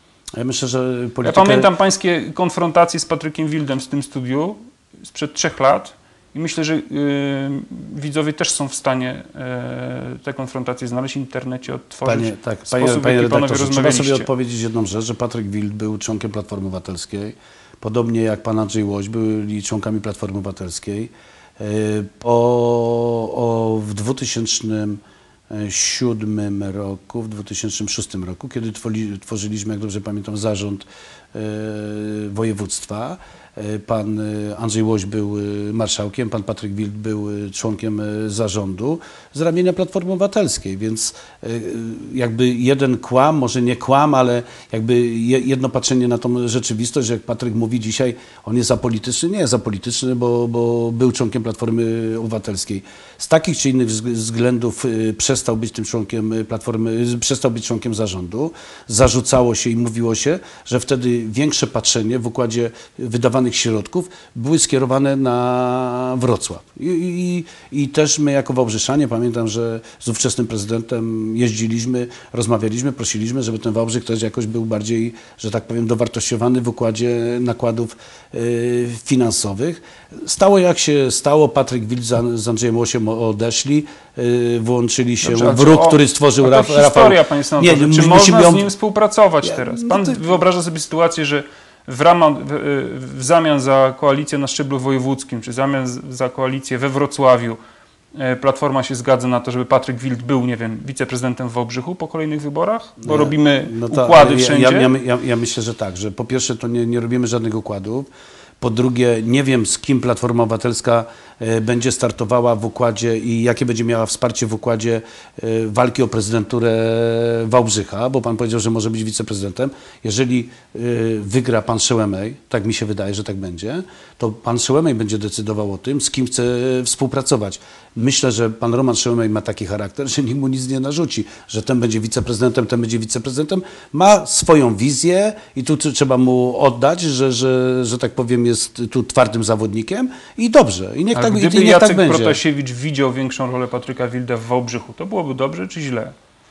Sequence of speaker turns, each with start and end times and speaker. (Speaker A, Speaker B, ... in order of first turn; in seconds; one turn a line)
Speaker A: 0.3-1.7
Speaker B: 1.2-14.3
Speaker A: 12.0-88.7
Speaker B: 85.2-97.6
Speaker A: 89.4-90.2
Speaker B: 98.1-104.9
Speaker A: 103.0-108.1
Speaker A: 108.6-142.4
Speaker B: 141.1-146.1